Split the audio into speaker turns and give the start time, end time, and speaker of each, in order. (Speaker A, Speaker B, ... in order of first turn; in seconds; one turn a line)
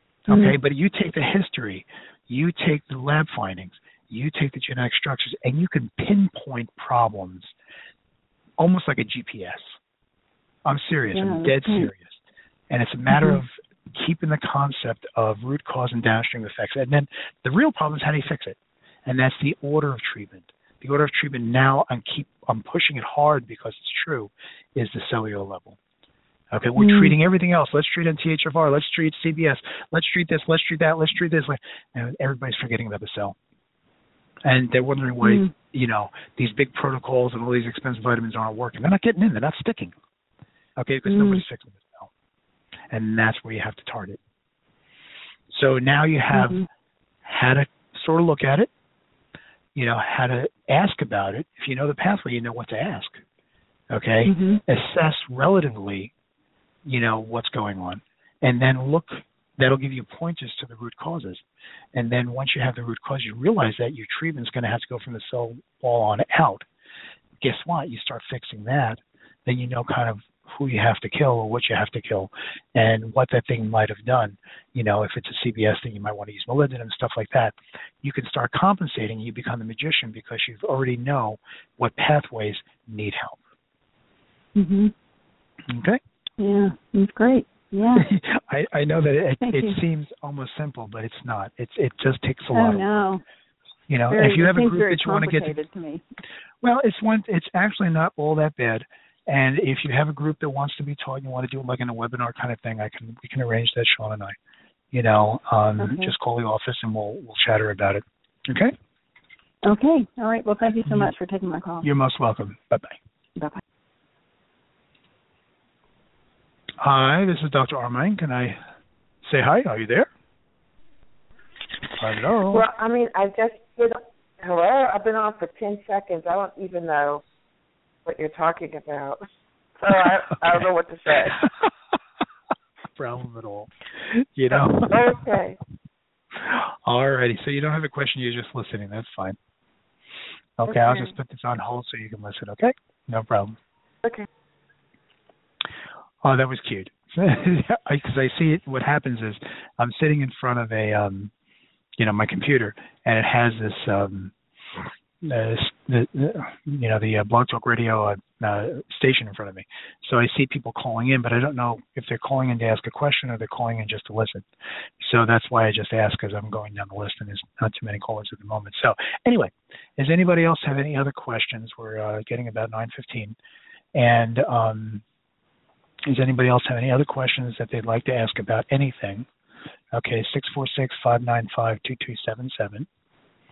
Speaker A: 0.3-7.5
Speaker B: 0.3-0.6
Speaker A: 8.6-9.8
Speaker A: 10.7-25.8
Speaker B: 11.1-11.9
Speaker B: 13.1-13.4
Speaker A: 26.5-33.4
Speaker B: 26.8-27.1
Speaker A: 34.4-40.0
Speaker B: 35.2-35.5
Speaker A: 40.8-42.1
Speaker B: 41.1-41.4
Speaker A: 42.9-44.2
Speaker A: 45.5-46.6
Speaker B: 46.3-46.7
Speaker A: 47.2-48.7
Speaker A: 49.8-53.2
Speaker A: 53.9-56.1
Speaker B: 54.3-54.6
Speaker A: 56.9-61.4
Speaker A: 62.0-66.7
Speaker A: 67.4-83.4
Speaker B: 84.5-84.9
Speaker A: 85.7-86.0
Speaker B: 86.4-88.1
Speaker A: 88.0-93.0
Speaker B: 89.4-89.8
Speaker B: 92.5-93.2
Speaker A: 93.9-95.6
Speaker B: 94.1-96.0
Speaker A: 96.6-104.4
Speaker A: 104.9-108.8
Speaker B: 105.8-106.1
Speaker B: 109.6-111.9
Speaker A: 110.9-111.1
Speaker A: 111.8-113.0
Speaker A: 116.8-118.6
Speaker A: 119.2-120.1
Speaker A: 122.0-122.7
Speaker C: 122.5-127.2
Speaker C: 128.1-129.2
Speaker C: 129.8-131.5
Speaker A: 133.0-135.2
Speaker C: 134.5-135.6
Speaker A: 136.3-139.4
Speaker A: 140.6-143.6
Speaker A: 146.2-151.3
Speaker A: 152.0-154.3
Speaker A: 155.2-164.5
Speaker A: 165.0-173.4
Speaker A: 173.9-175.0
Speaker A: 176.1-179.3
Speaker A: 179.9-182.9